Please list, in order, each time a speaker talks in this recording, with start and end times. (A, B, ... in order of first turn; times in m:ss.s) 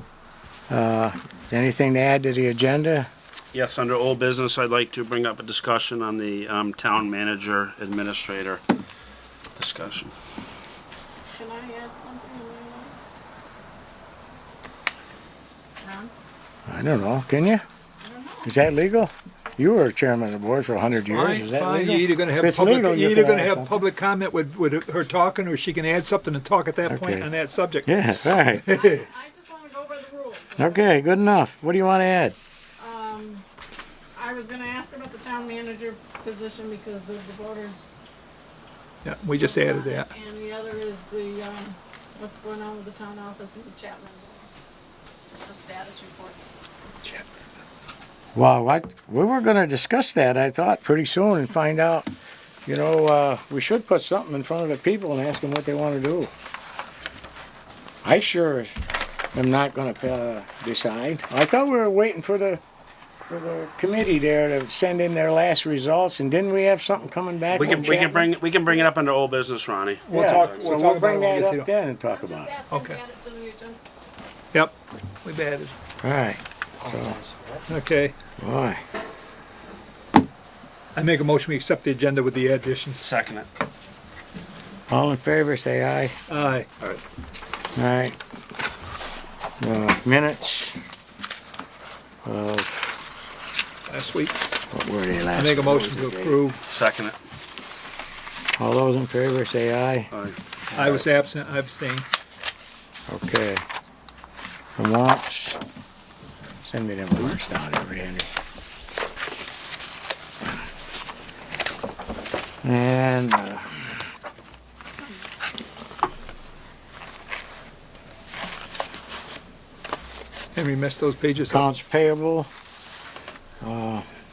0:00.7-0:03.1 A
0:03.5-0:08.6 B
0:09.6-0:10.1 B
0:11.3-0:13.0 C
0:15.8-0:16.1 C
0:16.7-0:17.6 A
0:18.0-0:18.5 C
0:18.4-0:23.8 A
0:21.1-0:29.0 D
0:26.9-0:27.3 A
0:27.8-0:28.8 A
0:28.7-0:31.0 C
0:30.6-0:32.4 A
0:32.8-0:33.4 C
0:34.2-0:37.9 C
0:39.0-0:40.1 D
0:39.4-0:44.5 C
0:45.3-0:46.4 C
0:48.4-0:52.1 A
0:52.7-0:56.3 A
0:58.0-0:58.7 A
0:59.3-1:02.6 A
1:03.3-1:08.3 A
1:07.5-1:10.7 B
1:10.1-1:11.7 D
1:10.1-1:12.6 A
1:12.0-1:13.8 C
1:12.7-1:13.0 D
1:14.5-1:15.7 D
1:16.0-1:17.2 A
1:17.3-1:17.6 B
1:17.7-1:18.1 D
1:18.4-1:18.8 A
1:21.0-1:23.0 D
1:23.0-1:23.5 B
1:24.9-1:26.2 A
1:26.3-1:27.0 D
1:27.8-1:28.2 A
1:29.6-1:30.8 A
1:32.2-1:33.0 A
1:33.9-1:34.6 D
1:34.7-1:36.5 A
1:35.3-1:36.6 D
1:36.7-1:37.2 B
1:38.6-1:40.1 A
1:40.1-1:40.4 B
1:40.8-1:42.1 D
1:43.1-1:43.6 A
1:44.8-1:45.6 A
1:46.6-1:48.3 A
1:52.6-1:54.0 A
2:00.6-2:01.7 D
2:01.5-2:02.5 A
2:03.6-2:04.0 A